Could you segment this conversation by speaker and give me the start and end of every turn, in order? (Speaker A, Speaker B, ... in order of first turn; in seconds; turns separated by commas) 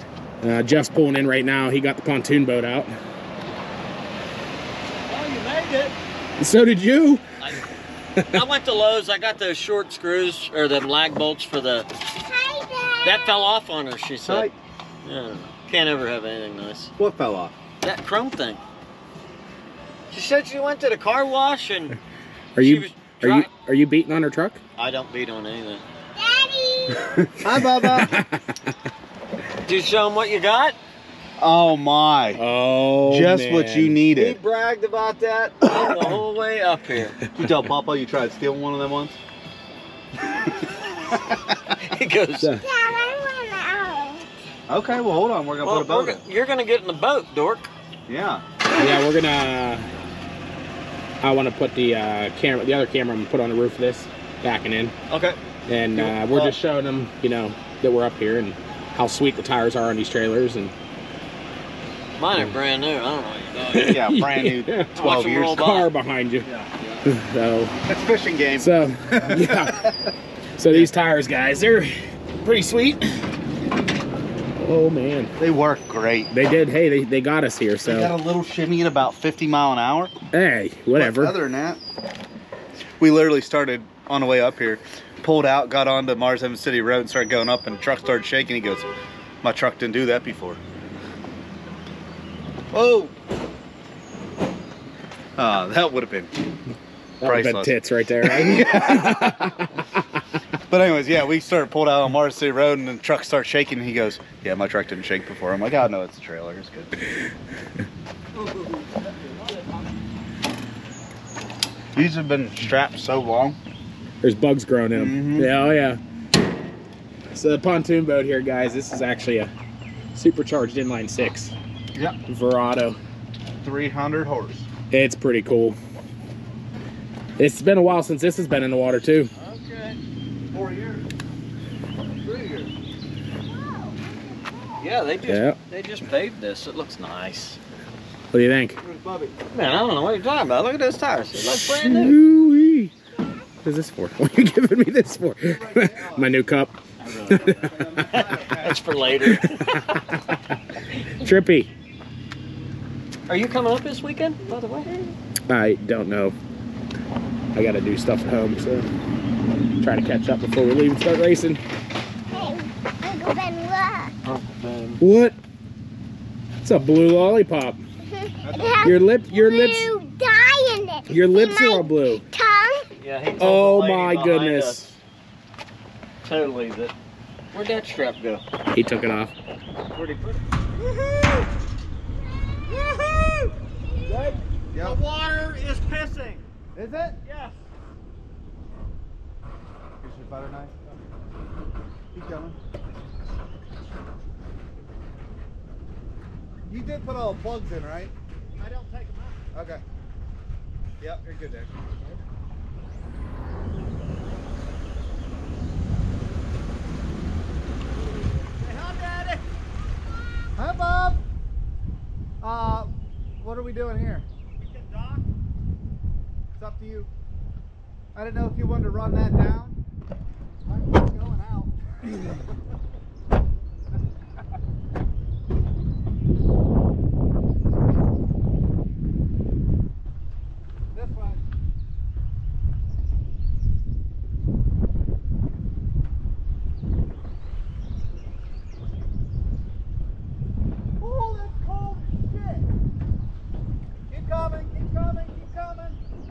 Speaker A: 0.4-2.9, Speaker B: 5.1-6.0, Speaker A: 6.4-7.2, Speaker B: 8.3-11.9, Speaker C: 12.2-13.3, Speaker B: 13.0-14.5, Speaker D: 14.2-14.6, Speaker B: 15.0-16.9, Speaker D: 17.0-17.6, Speaker B: 17.8-18.6, Speaker B: 20.1-22.0, Speaker A: 22.6-24.6, Speaker B: 22.6-23.5, Speaker B: 24.8-25.8, Speaker C: 26.2-27.3, Speaker D: 27.4-28.2, Speaker A: 27.9-28.4, Speaker B: 29.6-30.8, Speaker D: 31.4-32.4, Speaker A: 32.4-34.0, Speaker D: 33.0-34.4, Speaker B: 34.1-37.2, Speaker D: 37.3-39.2, Speaker C: 40.7-41.2, Speaker D: 41.1-41.6, Speaker B: 41.8-42.5, Speaker C: 42.6-44.3, Speaker D: 44.7-46.2, Speaker B: 45.6-47.7, Speaker D: 48.1-48.4, Speaker A: 48.8-49.9, Speaker A: 51.2-54.9, Speaker B: 55.1-55.4, Speaker A: 55.7-60.7, Speaker B: 55.9-56.5, Speaker B: 62.2-64.0, Speaker A: 63.7-66.5, Speaker D: 63.7-65.6, Speaker B: 65.0-65.9, Speaker B: 66.4-67.0, Speaker A: 67.0-67.8, Speaker D: 67.8-70.1, Speaker A: 68.5-69.9, Speaker A: 70.6-73.2, Speaker A: 74.6-75.3, Speaker D: 75.4-76.3, Speaker A: 76.3-78.1, Speaker D: 77.8-80.2, Speaker A: 80.3-81.3, Speaker D: 81.0-81.8, Speaker D: 83.0-88.9, Speaker D: 89.4-90.6, Speaker D: 92.7-93.1, Speaker D: 95.4-96.5, Speaker A: 97.2-99.9, Speaker D: 97.2-99.5, Speaker D: 100.7-107.0, Speaker D: 108.4-109.9, Speaker D: 111.9-113.6, Speaker A: 114.2-116.0, Speaker B: 114.9-115.5, Speaker A: 117.3-119.5, Speaker A: 120.2-121.5, Speaker A: 122.3-123.0, Speaker D: 123.6-124.7, Speaker A: 124.9-125.8, Speaker A: 127.4-129.3, Speaker B: 129.3-130.0, Speaker D: 130.5-131.1, Speaker D: 132.1-132.7, Speaker B: 134.8-137.6, Speaker A: 135.3-135.6, Speaker A: 138.3-138.8, Speaker D: 138.8-139.3, Speaker B: 139.5-142.2, Speaker A: 141.5-142.9, Speaker A: 143.6-146.8, Speaker D: 145.4-146.3, Speaker B: 147.0-150.0, Speaker A: 147.3-148.1, Speaker D: 147.3-148.9, Speaker A: 149.2-150.4, Speaker A: 151.1-151.7, Speaker B: 153.3-154.9, Speaker A: 155.5-156.3, Speaker A: 157.6-158.9, Speaker A: 159.8-161.6, Speaker C: 162.3-164.1, Speaker B: 164.2-165.0, Speaker A: 165.0-165.4, Speaker A: 166.6-167.8, Speaker C: 168.0-172.9, Speaker D: 168.4-169.0, Speaker A: 168.8-169.9, Speaker A: 171.1-172.2, Speaker B: 173.0-174.8, Speaker A: 173.4-175.0, Speaker B: 176.2-176.9, Speaker B: 177.5-178.4, Speaker A: 178.7-179.3, Speaker B: 179.9-181.5, Speaker B: 182.7-186.5, Speaker D: 184.7-185.0, Speaker D: 186.8-187.2, Speaker B: 187.2-187.6, Speaker D: 190.0-190.8, Speaker D: 192.1-192.6, Speaker D: 196.7-198.2, Speaker B: 198.6-199.5, Speaker D: 199.5-199.8, Speaker D: 201.0-201.8, Speaker B: 201.9-202.2, Speaker B: 208.6-209.4, Speaker D: 210.6-211.2, Speaker D: 212.4-214.3, Speaker B: 214.6-215.2, Speaker D: 216.6-217.1, Speaker D: 218.2-219.8, Speaker D: 220.7-222.4, Speaker D: 230.9-231.4, Speaker D: 241.0-242.7, Speaker D: 244.1-246.0